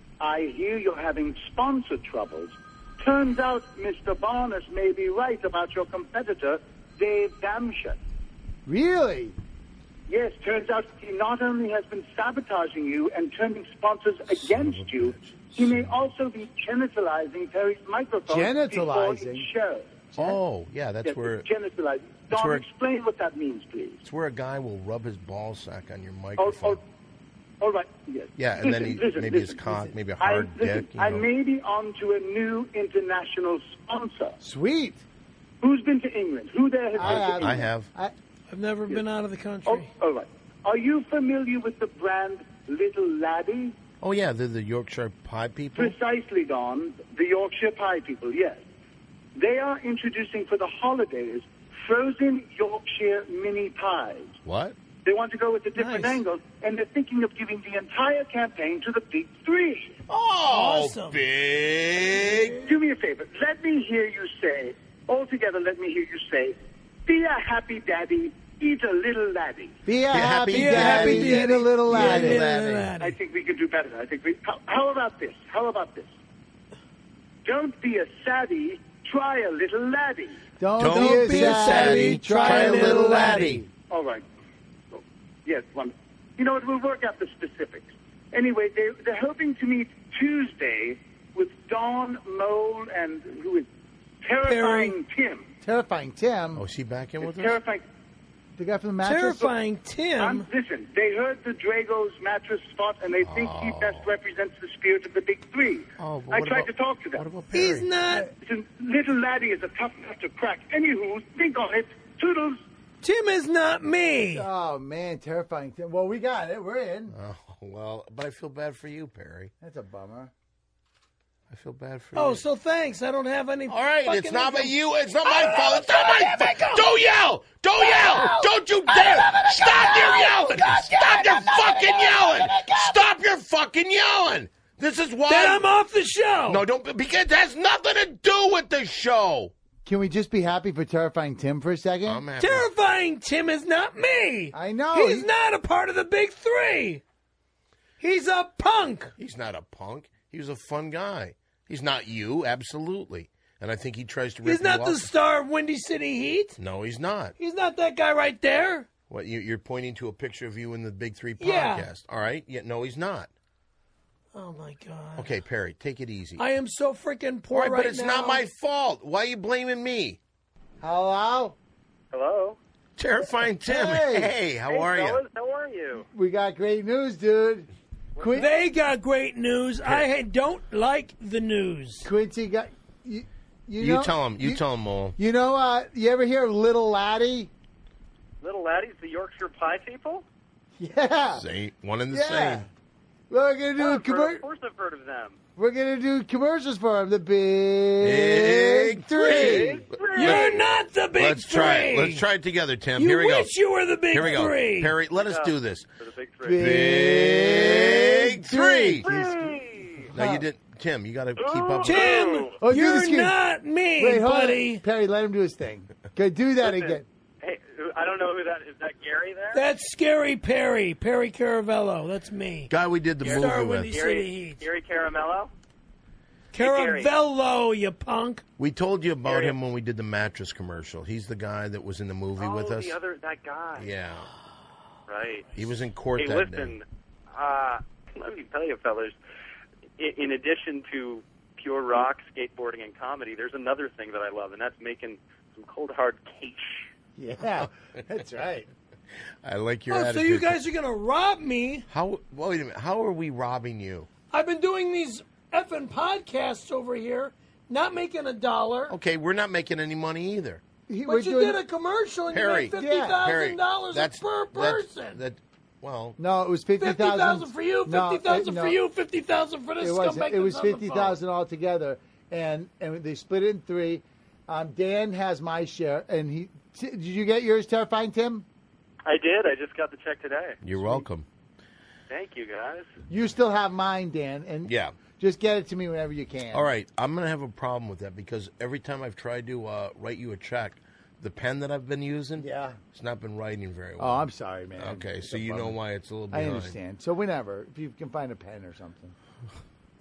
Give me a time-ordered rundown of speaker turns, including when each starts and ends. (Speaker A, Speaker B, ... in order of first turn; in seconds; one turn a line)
Speaker A: 0.2-8.0
Speaker B: 8.7-9.4
Speaker A: 10.1-20.1
Speaker C: 14.3-16.0
Speaker B: 18.3-19.5
Speaker C: 20.2-21.5
Speaker A: 21.0-24.0
Speaker C: 22.3-22.6
Speaker C: 24.0-26.8
Speaker A: 26.4-26.8
Speaker A: 27.6-34.4
Speaker C: 28.4-31.3
Speaker B: 34.4-35.0
Speaker A: 35.6-37.6
Speaker B: 37.0-38.1
Speaker C: 37.0-37.9
Speaker D: 38.5-39.9
Speaker A: 39.6-43.8
Speaker C: 44.0-46.0
Speaker A: 45.7-48.6
Speaker A: 49.3-54.4
Speaker C: 54.4-54.8
Speaker A: 55.0-60.0
Speaker D: 55.7-56.2
Speaker C: 60.1-62.6
Speaker D: 60.5-61.2
Speaker D: 62.1-62.7
Speaker A: 62.6-69.8
Speaker B: 69.8-72.4
Speaker C: 70.1-72.9
Speaker D: 70.5-73.2
Speaker A: 73.0-76.1
Speaker A: 77.4-80.4
Speaker B: 80.6-83.7
Speaker C: 80.8-83.7
Speaker D: 80.8-83.5
Speaker A: 83.9-84.2
Speaker A: 84.9-93.7
Speaker A: 94.2-95.5
Speaker D: 94.4-94.9
Speaker B: 95.6-96.6
Speaker C: 96.5-97.6
Speaker A: 97.2-97.8
Speaker B: 98.6-99.5
Speaker D: 99.0-100.5
Speaker A: 100.2-107.2
Speaker C: 103.2-104.1
Speaker C: 106.0-107.9
Speaker D: 107.5-108.3
Speaker A: 108.4-112.6
Speaker D: 113.0-114.5
Speaker B: 114.3-117.2
Speaker C: 117.1-119.5
Speaker B: 119.6-120.3
Speaker C: 121.5-122.4
Speaker D: 122.1-126.9
Speaker C: 123.7-135.7
Speaker D: 127.8-133.0
Speaker D: 135.3-136.6
Speaker C: 136.5-139.5
Speaker B: 139.8-142.2
Speaker C: 142.0-142.7
Speaker D: 142.4-147.0
Speaker B: 144.5-145.3
Speaker D: 148.0-149.1
Speaker C: 149.2-155.1
Speaker D: 154.4-156.6
Speaker C: 156.6-157.3
Speaker D: 157.4-158.9
Speaker C: 159.1-163.3
Speaker D: 161.4-161.9
Speaker D: 164.3-165.3
Speaker C: 165.2-166.4
Speaker D: 166.4-168.4
Speaker C: 167.5-170.2
Speaker B: 170.8-171.6
Speaker E: 172.1-172.6
Speaker C: 173.0-175.2
Speaker B: 173.6-174.3
Speaker E: 174.7-176.1
Speaker B: 176.1-178.5
Speaker E: 178.2-178.4
Speaker D: 178.3-182.1
Speaker B: 182.0-184.6
Speaker C: 183.8-185.2
Speaker B: 185.2-187.5
Speaker E: 188.4-190.2
Speaker B: 190.8-191.4
Speaker C: 191.3-192.7
Speaker B: 192.1-192.7
Speaker B: 193.3-194.4
Speaker E: 193.8-195.4
Speaker B: 195.6-199.9
Speaker C: 198.0-203.5
Speaker E: 199.2-200.6
Speaker D: 200.1-202.2
Speaker D: 202.9-204.9
Speaker C: 204.1-205.9
Speaker E: 205.2-206.7
Speaker B: 206.4-210.5
Speaker C: 206.5-209.1
Speaker E: 209.0-210.1
Speaker C: 210.1-212.1
Speaker E: 211.3-212.6
Speaker D: 211.8-214.8
Speaker B: 212.6-213.4
Speaker B: 214.0-217.0
Speaker E: 216.6-219.6
Speaker D: 219.5-224.6
Speaker C: 222.7-223.9
Speaker E: 223.2-225.5
Speaker D: 226.5-228.4
Speaker E: 226.6-227.1
Speaker C: 228.6-233.0
Speaker E: 229.2-229.6
Speaker E: 232.4-233.9
Speaker C: 233.8-234.3
Speaker E: 235.1-235.5
Speaker C: 235.5-236.8
Speaker E: 236.2-239.2
Speaker E: 240.0-246.9
Speaker B: 247.2-248.7
Speaker C: 249.4-250.6
Speaker D: 249.9-251.9
Speaker C: 251.9-254.1
Speaker D: 254.3-258.9
Speaker C: 258.9-260.6
Speaker B: 260.9-261.6
Speaker D: 261.1-265.2
Speaker C: 262.3-266.2
Speaker B: 262.7-263.2
Speaker B: 266.2-268.8
Speaker D: 266.8-271.2
Speaker B: 269.8-278.4
Speaker E: 279.0-280.6
Speaker C: 280.6-281.3
Speaker B: 280.8-281.1
Speaker E: 282.1-282.9
Speaker B: 283.1-286.7
Speaker C: 284.6-284.9
Speaker C: 286.5-296.8
Speaker B: 292.4-292.8
Speaker B: 294.0-295.8
Speaker B: 296.3-299.1